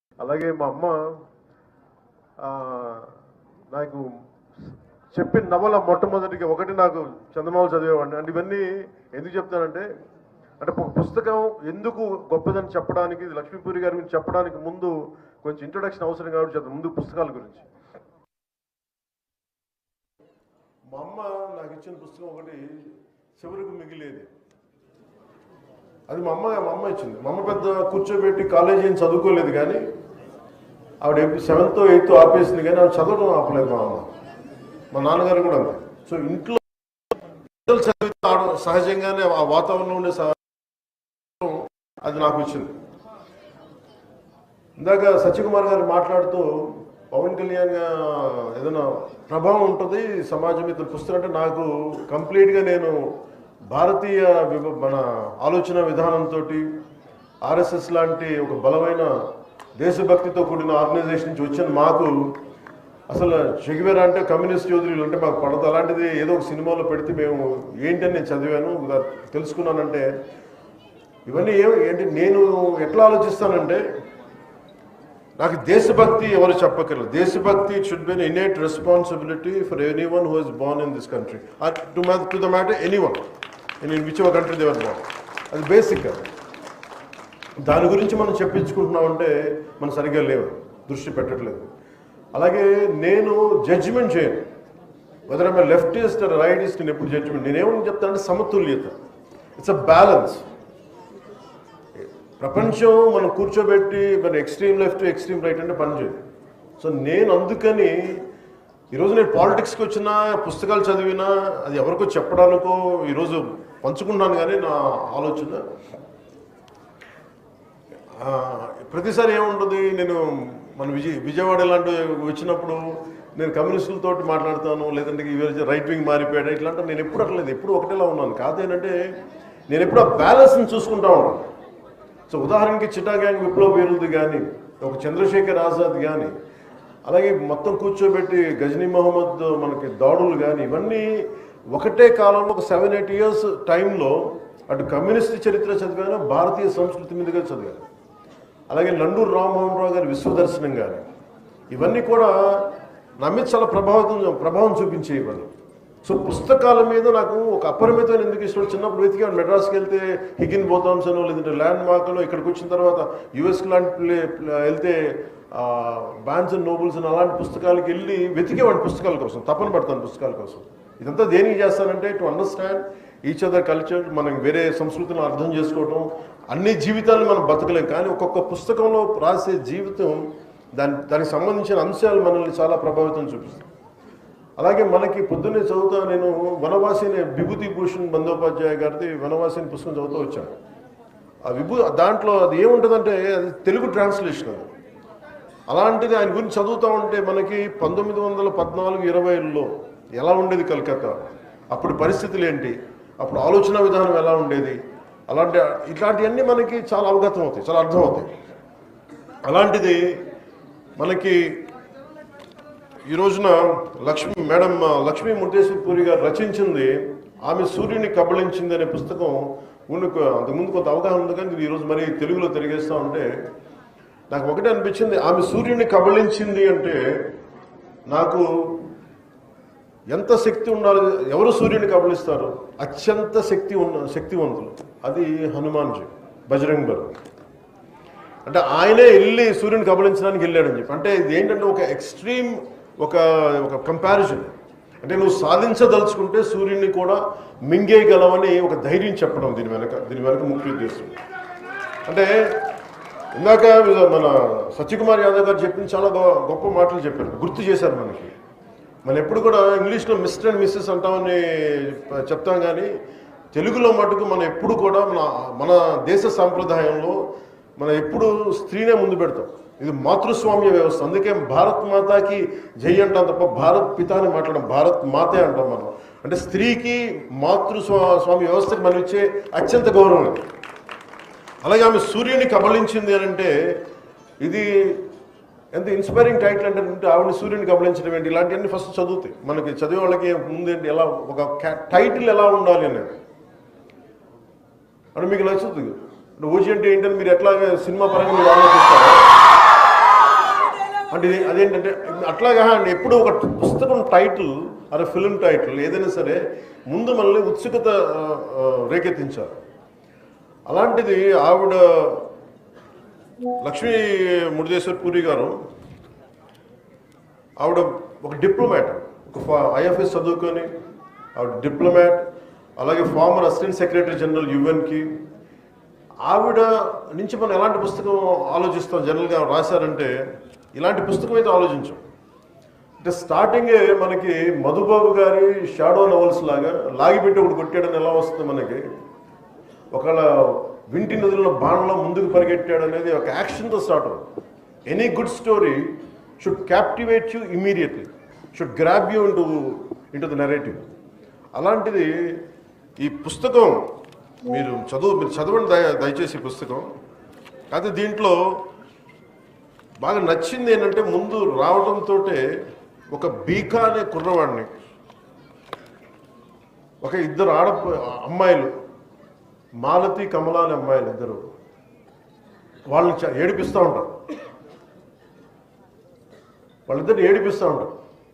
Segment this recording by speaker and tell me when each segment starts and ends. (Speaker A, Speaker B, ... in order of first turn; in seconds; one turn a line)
Speaker A: 0.2-1.0
Speaker A: 2.4-3.1
Speaker A: 3.7-4.1
Speaker A: 5.1-9.9
Speaker A: 10.6-17.7
Speaker A: 20.9-22.6
Speaker A: 23.4-24.3
Speaker A: 26.1-29.8
Speaker A: 31.0-34.1
Speaker A: 34.9-36.6
Speaker A: 37.6-40.4
Speaker A: 41.4-42.8
Speaker A: 44.8-46.5
Speaker A: 47.1-52.9
Speaker A: 53.7-56.6
Speaker A: 57.4-59.1
Speaker A: 59.8-62.1
Speaker A: 63.1-70.1
Speaker A: 71.2-73.8
Speaker A: 75.4-83.2
Speaker A: 83.8-86.2
Speaker A: 87.6-91.7
Speaker A: 92.3-94.4
Speaker A: 95.3-98.9
Speaker A: 99.6-100.4
Speaker A: 102.0-106.2
Speaker A: 106.8-108.2
Speaker A: 108.9-115.6
Speaker A: 118.2-122.8
Speaker A: 123.4-128.9
Speaker A: 129.7-131.5
Speaker A: 132.3-136.3
Speaker A: 137.1-141.1
Speaker A: 141.7-144.2
Speaker A: 144.7-147.8
Speaker A: 148.7-151.0
Speaker A: 151.7-152.3
Speaker A: 153.2-155.5
Speaker A: 156.0-183.7
Speaker A: 184.6-190.6
Speaker A: 191.4-194.7
Speaker A: 195.7-204.8
Speaker A: 205.3-208.3
Speaker A: 209.4-210.0
Speaker A: 211.0-211.4
Speaker A: 213.1-223.3
Speaker A: 224.3-227.0
Speaker A: 228.1-228.8
Speaker A: 230.1-237.2
Speaker A: 238.4-251.1
Speaker A: 252.0-252.6
Speaker A: 253.3-258.3
Speaker A: 259.0-262.9
Speaker A: 263.5-267.2
Speaker A: 267.8-280.5
Speaker A: 281.6-283.5
Speaker A: 284.4-285.0
Speaker A: 285.7-293.1
Speaker A: 295.1-299.2
Speaker A: 301.1-309.6
Speaker A: 310.7-312.3
Speaker A: 313.6-315.5
Speaker A: 317.6-320.7
Speaker A: 321.4-322.2
Speaker A: 322.8-325.1
Speaker A: 326.2-330.1
Speaker A: 330.7-332.0
Speaker A: 333.0-338.8
Speaker A: 339.9-344.2
Speaker A: 344.9-350.9
Speaker A: 351.5-352.1
Speaker A: 353.0-353.8
Speaker A: 354.4-356.9
Speaker A: 357.7-358.4
Speaker A: 360.0-362.4
Speaker A: 363.1-364.7
Speaker A: 367.0-368.7
Speaker A: 369.8-371.4
Speaker A: 372.9-374.2
Speaker A: 376.9-377.9